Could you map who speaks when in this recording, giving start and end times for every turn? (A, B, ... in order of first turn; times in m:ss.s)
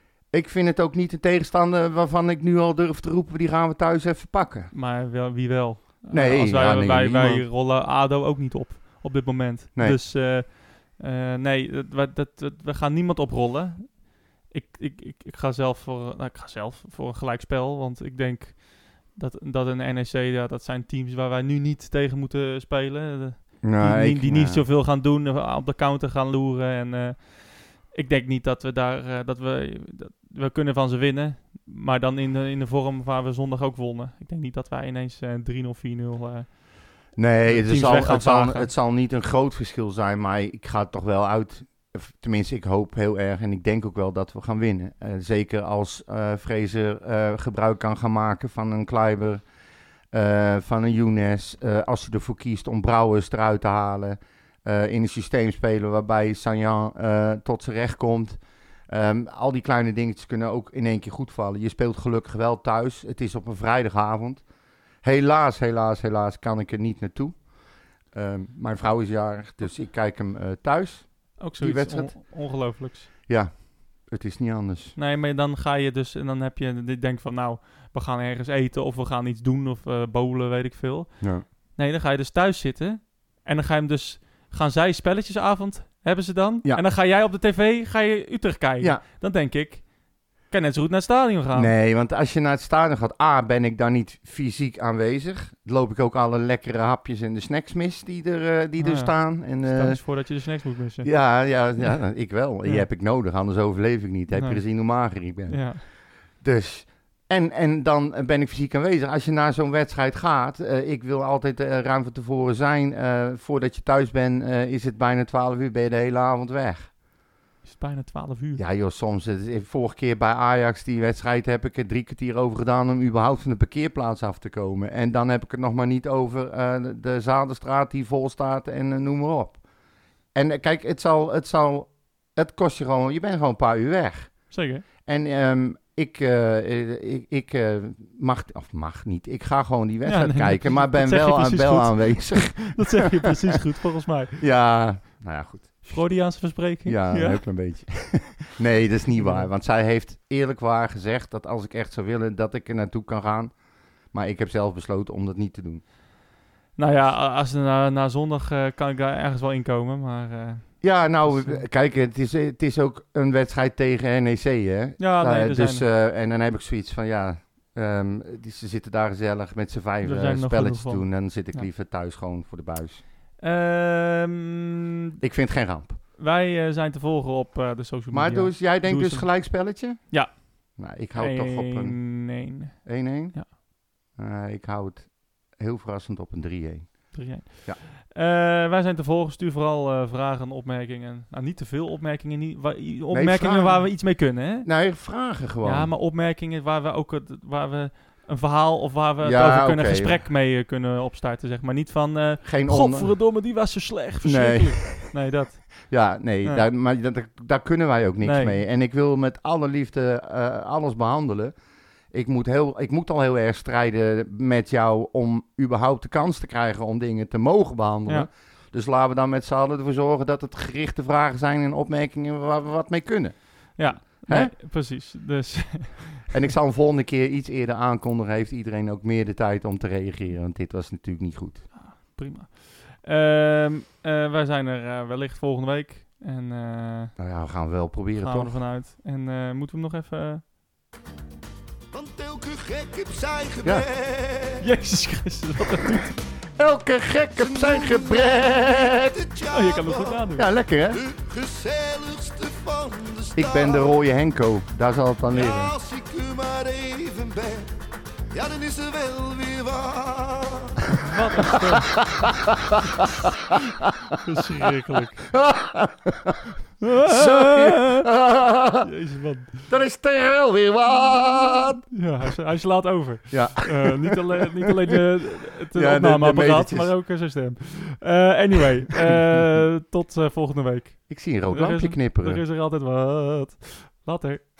0:00.3-0:04.7 A
0:04.7-0:38.7 B
0:06.1-0:07.4 A
0:23.6-0:24.6 A
0:37.2-0:49.4 A
0:50.1-1:04.4 A
1:05.0-1:07.5 A
1:08.1-1:12.2 A
1:11.4-1:13.1 B
1:13.3-1:15.0 A
1:15.0-1:31.7 B
1:31.5-1:40.2 A
1:38.8-1:41.9 B
1:41.0-1:56.9 A
1:44.3-1:45.8 B
1:57.6-1:58.6 B
1:58.6-2:09.6 A
2:10.3-2:23.3 A
2:14.5-2:14.8 B
2:20.0-2:24.4 B
2:24.4-2:33.5 A
2:25.8-2:27.4 B
2:29.1-2:29.5 B
2:34.1-2:35.8 A
2:36.8-2:41.6 B
2:40.8-2:53.0 A
2:45.0-2:45.9 B
2:50.0-2:51.7 B
2:53.4-2:55.2 B
2:55.2-2:56.0 A
2:56.2-3:03.5 B
2:58.1-3:02.1 A
3:02.8-3:07.8 A
3:07.1-3:14.7 B
3:13.1-3:15.9 A
3:15.6-3:25.9 B
3:19.2-3:20.2 A
3:22.4-3:23.2 A
3:24.2-3:25.1 A
3:25.8-3:31.5 A
3:28.2-3:28.6 B
3:32.1-3:44.5 A
3:43.8-3:46.3 B
3:46.3-3:51.7 A
3:51.7-3:57.1 B
3:57.2-3:58.6 A
3:58.2-4:00.4 B
4:01.9-4:04.6 C
4:04.6-4:06.2 B
4:06.6-4:09.1 A
4:07.4-4:10.3 C
4:09.5-4:10.5 B
4:10.4-4:11.0 A
4:10.9-4:14.0 C
4:13.4-4:15.7 A
4:15.3-4:17.8 C
4:18.3-4:20.8 C
4:21.0-4:21.9 B
4:22.1-4:23.0 A
4:24.1-4:25.3 B
4:25.3-4:28.9 A
4:26.8-4:28.1 B
4:28.8-4:29.7 B
4:29.7-4:31.9 A
4:31.9-4:44.4 B
4:33.3-4:34.2 A
4:35.7-4:37.0 A
4:41.1-4:42.4 A